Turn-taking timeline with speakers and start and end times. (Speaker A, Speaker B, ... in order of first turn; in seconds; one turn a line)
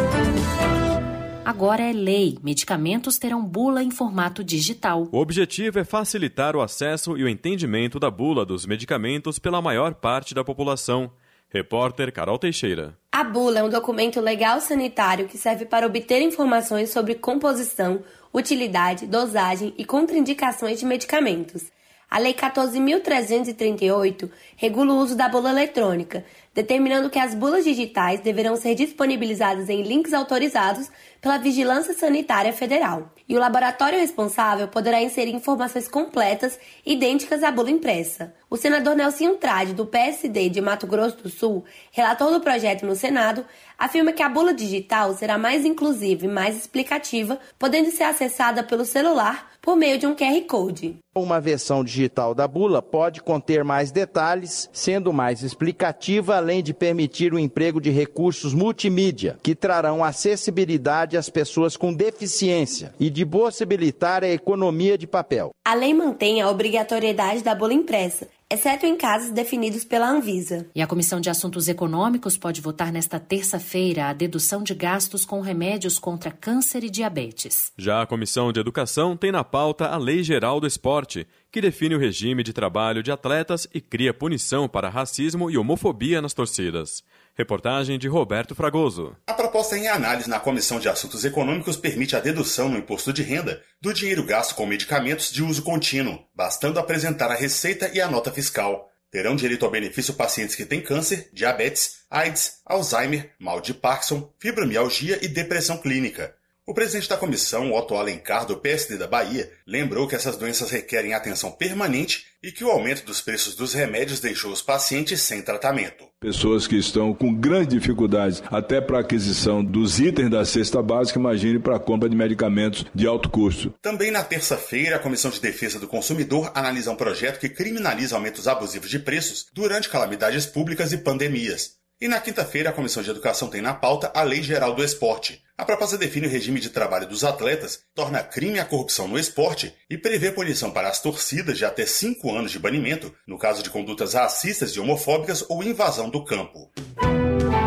Speaker A: 1.4-5.1
Speaker B: 5.1-12.9
Speaker C: 13.1-51.0
Speaker D: 51.1-65.4
Speaker C: 65.6-70.7
Speaker A: 70.7-77.7
Speaker B: 77.8-89.2
Speaker E: 89.3-116.1
Speaker F: 116.2-123.7
Speaker E: 123.8-146.7